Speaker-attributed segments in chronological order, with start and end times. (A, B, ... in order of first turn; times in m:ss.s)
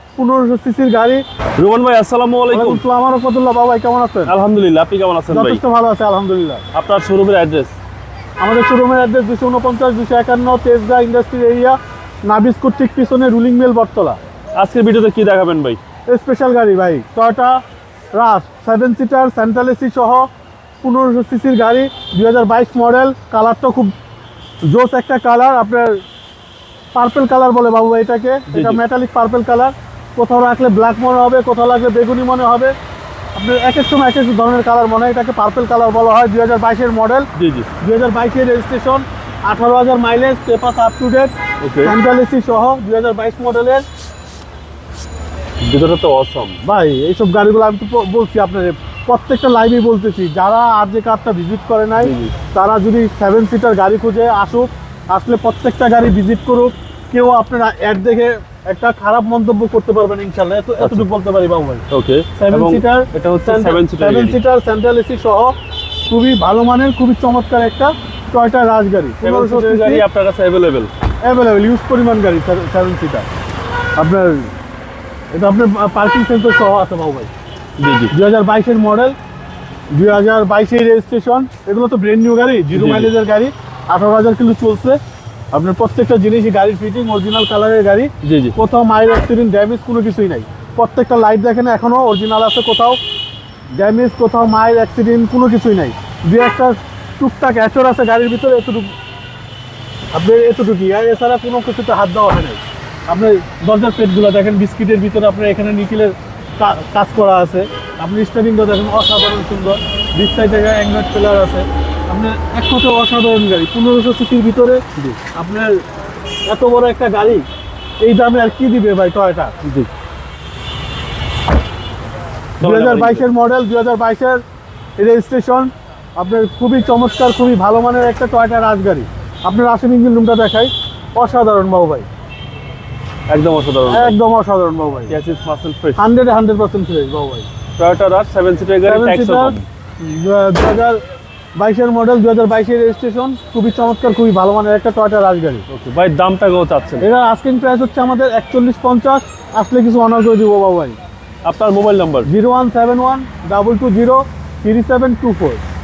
0:00.2-0:01.2 A
0:01.6-0:02.8 B
0:02.5-0:04.3 A
0:04.3-0:05.6 B
0:05.3-0:06.6 A
0:06.7-0:07.8 B
0:08.4-0:14.2 A
0:14.6-0:15.8 B
0:16.1-0:17.6 A
0:18.1-0:20.3 A
0:20.8-0:23.9 A
0:24.6-0:26.0 A
0:26.9-0:32.8 A
0:28.5-0:28.8 B
0:33.4-0:37.3 A
0:37.4-0:37.7 B
0:37.8-0:43.8 A
0:41.6-0:42.0 B
0:45.6-0:46.6 B
0:46.6-1:01.8 A
0:52.0-0:52.3 B
1:00.8-1:01.1 B
1:01.9-1:04.4 B
1:02.4-1:05.5 A
1:06.1-1:10.0 A
1:09.2-1:10.9 B
1:11.2-1:13.3 A
1:14.0-1:14.5 A
1:15.3-1:17.3 A
1:17.8-1:18.1 B
1:18.1-1:19.2 A
1:19.9-1:25.0 A
1:22.7-1:23.1 B
1:25.5-1:33.0 A
1:28.2-1:28.6 B
1:33.7-1:38.9 A
1:40.1-1:55.8 A
1:56.5-1:57.5 A
1:58.0-1:59.6 A
1:59.6-1:59.9 B
2:02.6-2:03.3 B
2:02.6-2:04.4 A
2:05.0-2:12.1 A
2:13.3-2:14.2 B
2:13.9-2:15.2 A
2:15.1-2:16.0 B
2:16.0-2:17.5 A
2:17.8-2:19.7 B
2:18.8-2:21.0 A
2:21.6-2:25.7 A
2:25.7-2:27.1 B
2:27.0-2:31.0 A
2:31.4-2:32.3 B
2:32.2-2:35.6 A